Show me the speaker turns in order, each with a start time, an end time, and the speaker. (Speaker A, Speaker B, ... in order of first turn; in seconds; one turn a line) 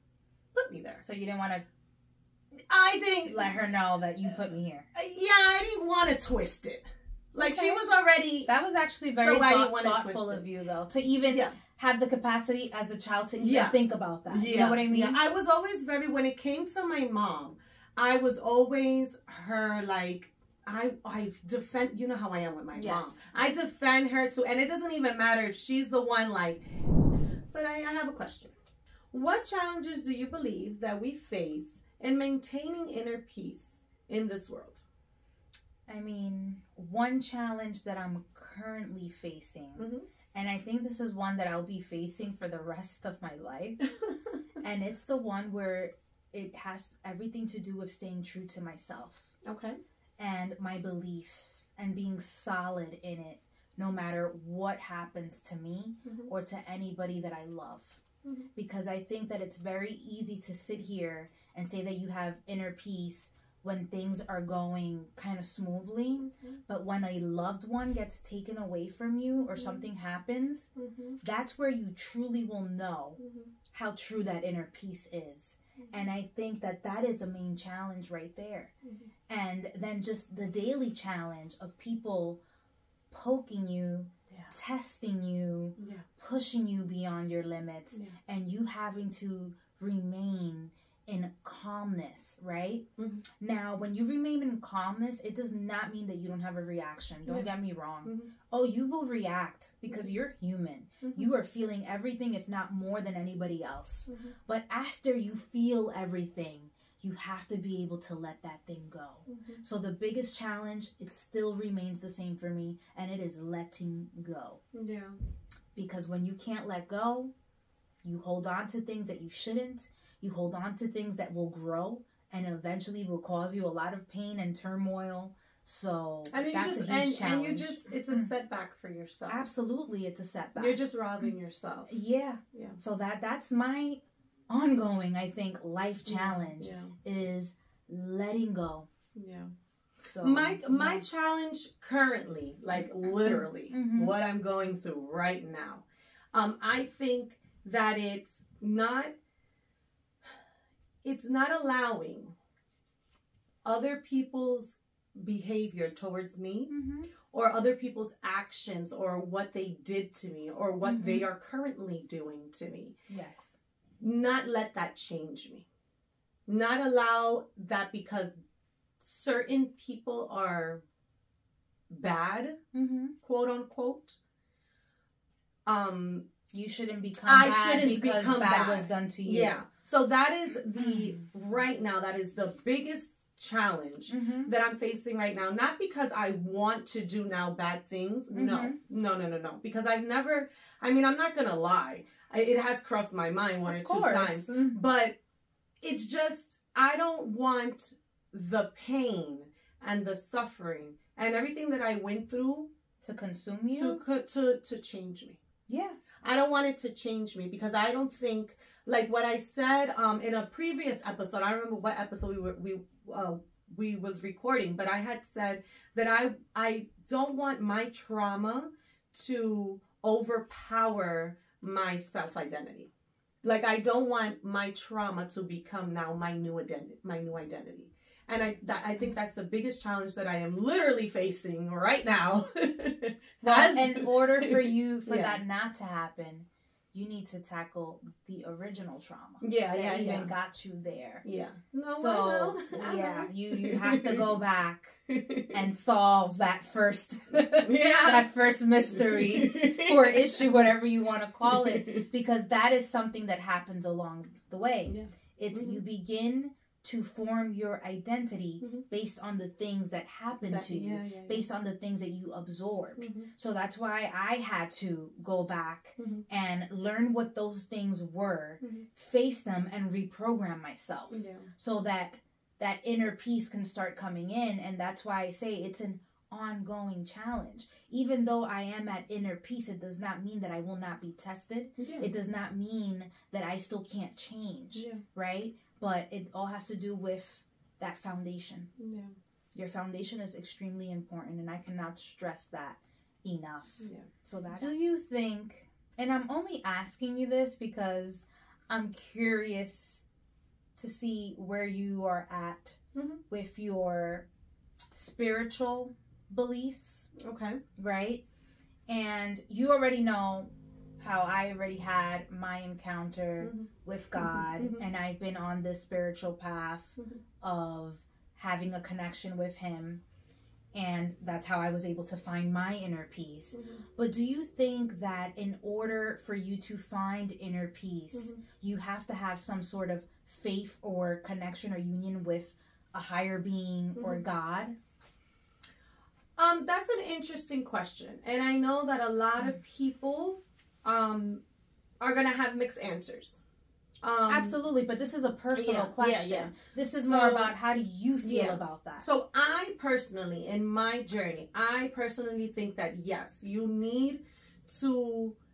Speaker A: 0.5-1.0
Speaker B: 1.0-1.6
Speaker A: 2.7-3.5
Speaker B: 3.3-4.9
Speaker A: 4.9-8.5
Speaker B: 7.4-7.8
Speaker B: 8.4-15.2
Speaker A: 9.2-10.5
Speaker A: 11.3-11.6
Speaker A: 13.4-13.8
Speaker A: 14.3-26.6
Speaker B: 22.7-23.2
Speaker A: 27.4-28.5
Speaker A: 29.1-34.8
Speaker B: 35.9-43.8
Speaker A: 39.8-40.0
Speaker B: 44.6-49.3
Speaker A: 49.4-49.8
Speaker B: 50.2-58.0
Speaker A: 56.0-56.3
Speaker B: 58.5-70.7
Speaker A: 69.5-69.8
Speaker A: 70.8-71.2
Speaker B: 71.2-73.2
Speaker A: 73.2-73.5
Speaker B: 73.7-78.7
Speaker B: 79.3-82.4
Speaker B: 83.1-92.8
Speaker A: 85.8-86.0
Speaker A: 93.0-93.2
Speaker B: 93.4-114.6
Speaker A: 98.0-98.3
Speaker A: 101.0-101.3
Speaker A: 104.1-104.3
Speaker A: 109.3-109.6
Speaker A: 114.7-115.2
Speaker B: 115.7-117.3
Speaker B: 118.0-128.3
Speaker A: 126.3-129.5
Speaker B: 129.3-131.3
Speaker A: 130.6-131.9
Speaker B: 131.9-138.9
Speaker A: 132.5-132.8
Speaker A: 136.1-136.9
Speaker A: 139.1-139.5
Speaker B: 140.0-141.0
Speaker A: 140.2-149.1
Speaker B: 143.2-144.2
Speaker A: 151.0-152.3
Speaker A: 153.6-156.7
Speaker B: 156.7-157.1
Speaker A: 157.2-162.9
Speaker B: 160.8-161.2
Speaker B: 163.1-163.6
Speaker A: 164.0-165.7
Speaker A: 166.4-168.3
Speaker A: 169.0-170.8
Speaker A: 171.9-172.6
Speaker B: 172.7-173.1
Speaker A: 173.2-174.2
Speaker A: 175.7-176.3
Speaker B: 176.5-179.6
Speaker A: 177.2-195.2
Speaker B: 180.8-181.2
Speaker B: 184.1-184.5
Speaker B: 188.3-188.8
Speaker B: 193.7-194.8
Speaker A: 195.8-202.7
Speaker B: 203.0-204.0
Speaker A: 203.7-205.4
Speaker B: 205.7-206.0
Speaker A: 206.2-222.9
Speaker A: 223.4-235.4
Speaker B: 233.4-241.2
Speaker A: 239.4-240.3
Speaker A: 241.2-244.3
Speaker B: 241.9-288.7
Speaker A: 245.1-245.6
Speaker A: 247.4-248.3
Speaker A: 248.9-250.5
Speaker A: 251.4-252.0
Speaker A: 254.9-255.8
Speaker A: 260.4-261.4
Speaker A: 263.0-263.3
Speaker A: 266.0-266.2
Speaker A: 271.1-271.5
Speaker A: 281.8-282.1
Speaker A: 284.7-285.0
Speaker A: 288.8-289.1
Speaker B: 289.5-300.0
Speaker A: 293.8-294.7
Speaker B: 300.8-302.8
Speaker A: 302.9-303.2
Speaker B: 303.3-304.3
Speaker B: 304.9-307.1
Speaker A: 307.2-307.6
Speaker B: 307.8-308.2
Speaker B: 308.9-320.0
Speaker A: 313.4-314.8
Speaker B: 320.7-334.8
Speaker A: 323.5-323.8
Speaker A: 328.1-328.4
Speaker A: 333.9-334.2
Speaker A: 336.4-341.4
Speaker A: 342.0-343.4
Speaker A: 344.0-344.6
Speaker B: 344.3-349.1
Speaker A: 345.5-346.5
Speaker A: 347.0-347.5
Speaker A: 348.2-355.4